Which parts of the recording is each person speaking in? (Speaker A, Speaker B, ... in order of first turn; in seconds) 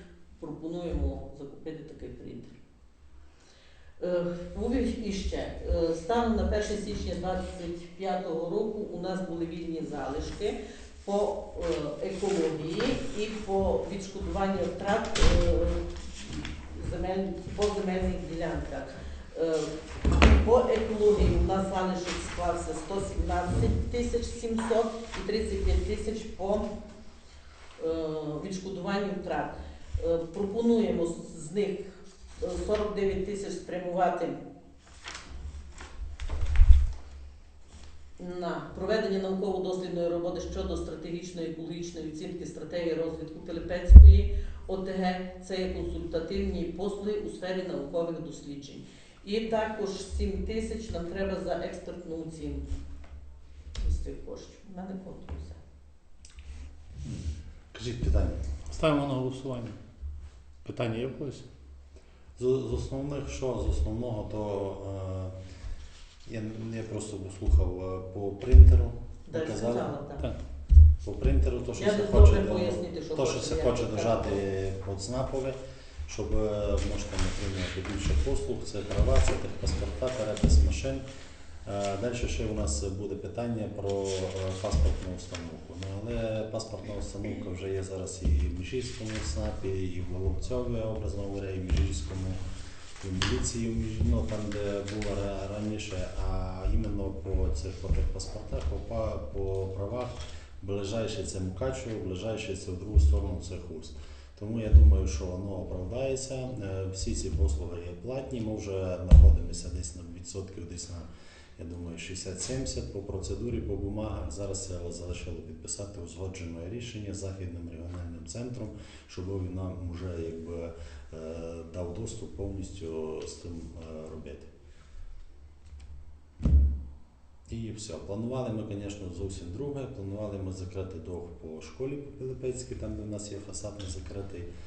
Speaker A: 0.4-2.5, 4.0-26.7, 27.8-34.4, 38.2-52.6, 53.8-55.6, 69.3-70.3, 71.8-74.4
Speaker B: 57.7-58.4, 62.4-65.4, 66.2-69.9, 71.0-81.1, 81.7-92.4, 93.0-124.5, 126.4-126.7, 127.5-134.5
Speaker C: 58.7-59.8, 60.6-61.4